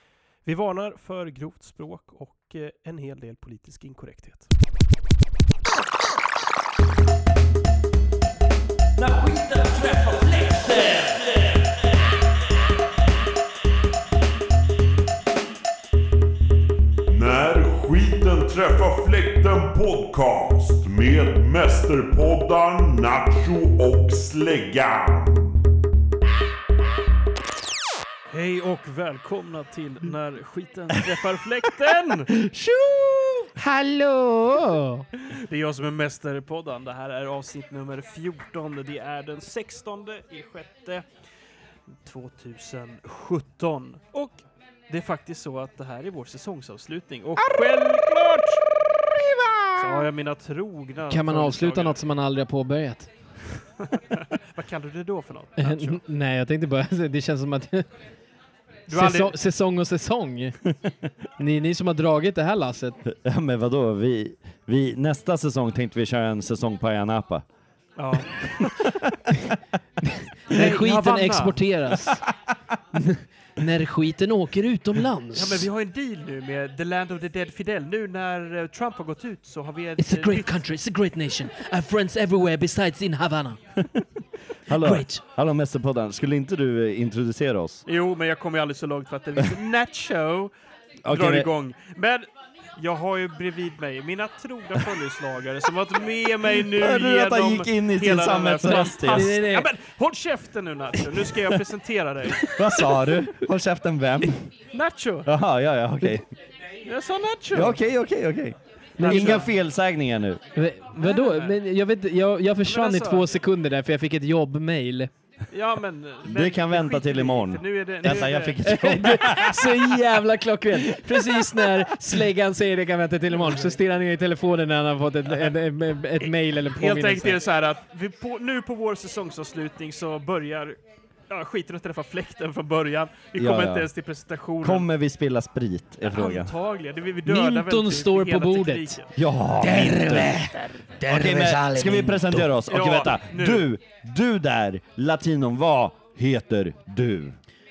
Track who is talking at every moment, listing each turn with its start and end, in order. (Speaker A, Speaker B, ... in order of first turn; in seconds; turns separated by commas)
Speaker A: 0.5-4.5, Speaker B: 9.0-11.9, Speaker C: 17.1-25.6, Speaker A: 28.3-32.3, Speaker B: 32.4-33.5, Speaker D: 33.6-35.0, Speaker A: 35.3-41.0, Speaker A: 42.0-48.6, Speaker D: 49.2-50.1, Speaker A: 49.8-52.0, Speaker D: 51.1-53.1, Speaker A: 53.9-56.0, Speaker D: 55.6-57.9, Speaker A: 58.9-59.4, Speaker D: 58.9-60.5, Speaker D: 61.4-63.0, Speaker B: 63.0-67.4, Speaker A: 68.0-68.8, Speaker D: 70.5-72.2, Speaker A: 70.5-71.6, Speaker D: 72.9-75.7, Speaker A: 75.4-80.6, Speaker D: 80.0-83.6, Speaker B: 84.7-87.8, Speaker D: 84.7-85.2, Speaker A: 87.9-90.5, Speaker B: 91.0-91.5, Speaker A: 91.1-102.9, Speaker B: 96.6-99.3, Speaker D: 99.0-99.7, Speaker B: 102.4-104.4, Speaker A: 104.7-105.3, Speaker B: 105.2-106.2, Speaker A: 106.8-107.8, Speaker B: 107.5-110.4, Speaker A: 109.0-109.5, Speaker D: 109.0-109.4, Speaker D: 110.5-115.1, Speaker A: 111.0-111.5, Speaker A: 112.7-113.2, Speaker A: 115.5-118.6, Speaker B: 116.2-119.8, Speaker D: 118.6-127.4, Speaker A: 126.8-130.8, Speaker A: 131.3-134.9, Speaker B: 133.4-133.9, Speaker B: 134.6-136.5, Speaker A: 136.1-139.1, Speaker D: 137.2-139.0, Speaker B: 139.2-140.4, Speaker D: 139.6-142.5, Speaker A: 140.5-140.8, Speaker B: 141.0-147.4, Speaker A: 142.7-143.7